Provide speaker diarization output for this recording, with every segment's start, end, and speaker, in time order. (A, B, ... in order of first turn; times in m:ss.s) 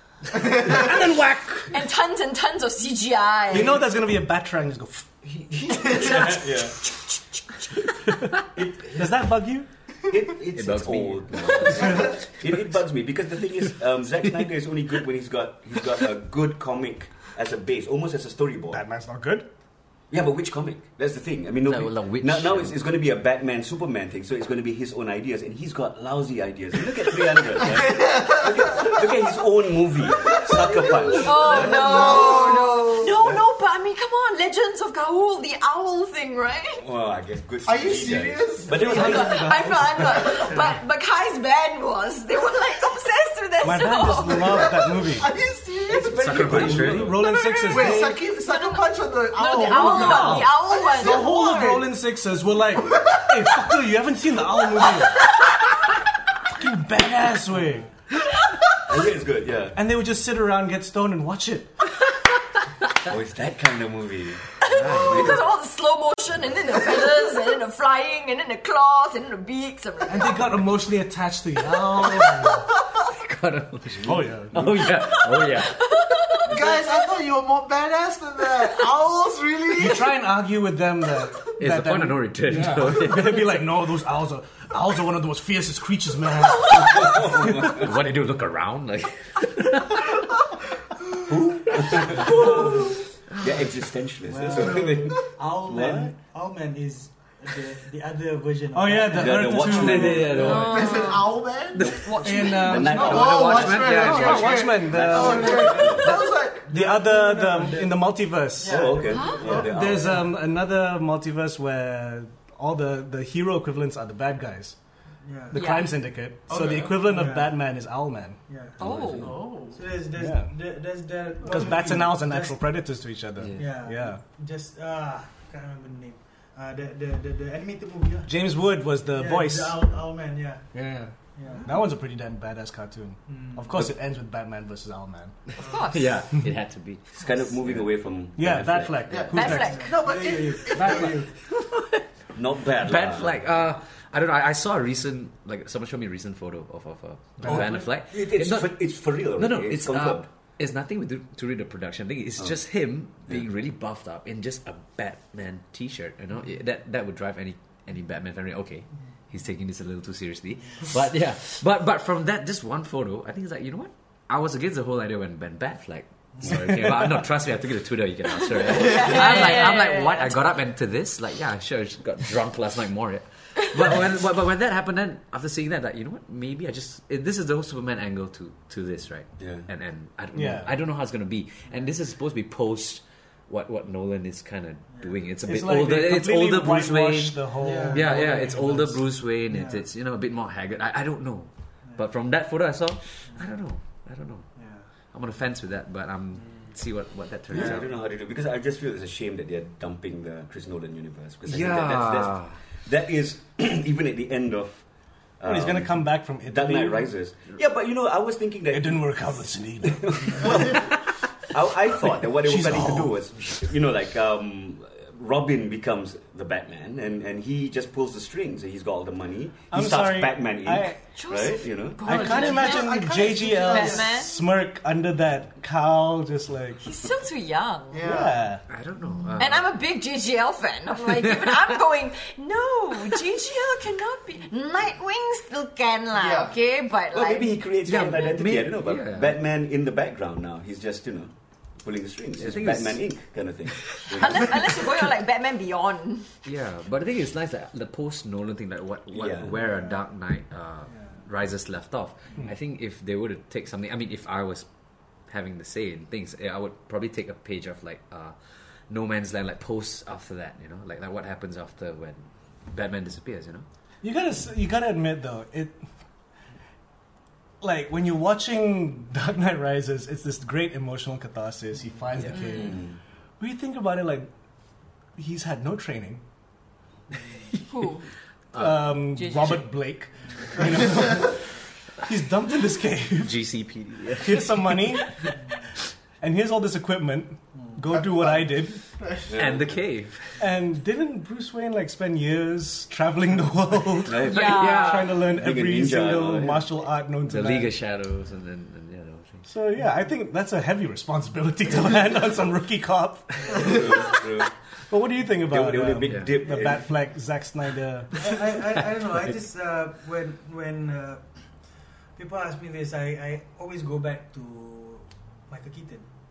0:00.6-0:01.8 A
0:01.7-0:03.8 B
0:03.5-0:05.1 A
0:05.2-0:06.8 C
0:05.7-0:06.3 D
0:06.0-0:06.4 B
0:08.5-0:09.2 C
0:08.9-0:09.7 A
0:10.1-0:18.8 C
0:10.5-0:12.3 E
0:18.7-0:19.5 A
0:20.1-0:32.5 C
0:21.6-0:22.8 E
0:27.6-0:29.2 D
0:30.1-0:33.2 D
0:31.1-0:36.8 B
0:33.1-0:33.4 C
0:36.8-0:39.6 C
0:37.6-0:39.5 D
0:38.7-0:40.6 A
0:38.9-0:44.8 B
0:43.6-0:45.3 A
0:44.3-0:46.7 D
0:45.9-0:47.2 C
0:46.1-0:47.2 E
0:46.3-0:48.2 A
0:47.2-0:51.3 B
0:47.7-0:51.9 D
0:49.7-0:55.2 A
0:52.7-0:53.7 D
0:56.5-0:57.9 A
0:58.8-0:59.8 C
0:59.7-1:01.7 A
1:03.0-1:05.4 C
1:04.6-1:10.5 B
1:04.6-1:05.4 E
1:10.1-1:12.6 A
1:12.2-1:15.8 E
1:13.9-1:14.8 A
1:14.0-1:14.7 C
1:15.2-1:16.9 B
1:16.4-1:20.1 D
1:19.7-1:27.8 A
1:21.6-1:23.5 E
1:26.6-1:28.0 C
1:26.7-1:27.0 B
1:27.5-1:30.2 E
1:31.3-1:36.1 C
1:32.2-1:32.6 E
1:34.2-1:39.6 F
1:38.7-1:40.7 A
1:39.1-1:40.6 C
1:39.6-1:41.0 E
1:40.3-1:41.4 B
1:40.6-1:42.2 D
1:41.8-1:44.6 E
1:41.9-1:43.3 B
1:41.9-1:46.1 C
1:42.2-1:45.9 A
1:43.0-1:46.7 D
1:45.1-1:50.1 F
1:46.7-1:54.8 A
1:48.6-1:50.2 C
1:49.1-1:49.4 B
1:49.4-1:49.6 D
1:55.2-1:55.6 F
1:55.5-1:58.4 A
1:55.5-1:56.0 B
1:56.5-1:57.1 D
1:57.0-1:57.6 F
1:58.5-1:58.8 F
1:58.8-1:59.3 E
1:58.8-1:59.3 B
1:59.2-1:59.8 D
1:59.7-2:02.6 F
2:00.1-2:00.5 A
2:01.4-2:04.2 A
2:03.4-2:03.6 E
2:03.5-2:08.3 F
2:08.2-2:09.8 A
2:09.1-2:10.6 F
2:10.7-2:15.4 A
2:11.4-2:11.7 F
2:13.3-2:13.7 F
2:15.6-2:16.1 B
2:15.8-2:17.1 E
2:17.1-2:19.2 C
2:17.6-2:17.9 E
2:18.4-2:19.9 A
2:19.1-2:21.2 D
2:19.3-2:19.9 B
2:19.7-2:21.3 F
2:20.7-2:21.2 A
2:21.4-2:22.0 E
2:22.3-2:23.6 C
2:22.7-3:14.5 E
2:27.4-2:27.8 A
2:27.4-2:30.3 C
2:46.5-2:47.0 A
2:48.5-2:50.4 B
2:59.4-2:59.7 C
3:00.3-3:00.7 A
3:05.4-3:09.0 A
3:07.6-3:08.5 F
3:09.5-3:09.8 F
3:13.3-3:13.5 F
3:14.6-3:14.8 F
3:15.1-3:17.9 E
3:17.5-3:24.8 C
3:21.4-3:22.6 E
3:25.4-3:42.2 C
3:25.4-3:27.1 A
3:28.7-3:30.9 A
3:31.9-3:33.2 A
3:39.7-3:41.0 A
3:41.1-3:44.3 B
3:42.0-3:46.8 A
3:42.1-3:44.2 D
3:46.8-3:48.0 B
3:47.9-3:48.5 D
3:48.0-3:48.6 A
3:48.7-3:49.7 E
3:49.4-3:58.2 B
3:56.1-3:56.5 D
3:57.1-4:04.9 C
3:57.8-3:59.4 E
4:02.4-4:03.0 E
4:04.0-4:06.3 B
4:06.4-4:14.7 E
4:09.1-4:09.6 C
4:15.2-4:18.4 E
4:18.9-4:23.6 E
4:24.0-4:25.8 A
4:27.6-4:32.8 A
4:32.2-4:32.6 E
4:32.3-4:32.6 B
4:32.6-4:33.0 C
4:33.4-4:34.3 A
4:35.2-4:36.2 A
4:37.7-4:38.1 B
4:38.5-4:38.9 E
4:38.5-4:43.4 A
4:39.1-4:39.6 B
4:43.2-4:45.3 E
4:44.2-4:45.2 A
4:46.2-4:48.8 A
4:47.9-4:49.4 D
4:49.3-4:49.8 C
4:49.3-4:50.4 E
4:50.4-4:57.7 A
4:54.0-4:56.7 C
4:54.2-4:55.2 B
4:54.3-4:55.0 E
4:57.2-4:59.4 E
4:59.5-5:04.2 A
5:03.5-5:04.5 C
5:04.9-5:08.2 A
5:05.5-5:06.9 C
5:06.1-5:06.4 E
5:08.2-5:11.4 F
5:12.2-5:16.1 F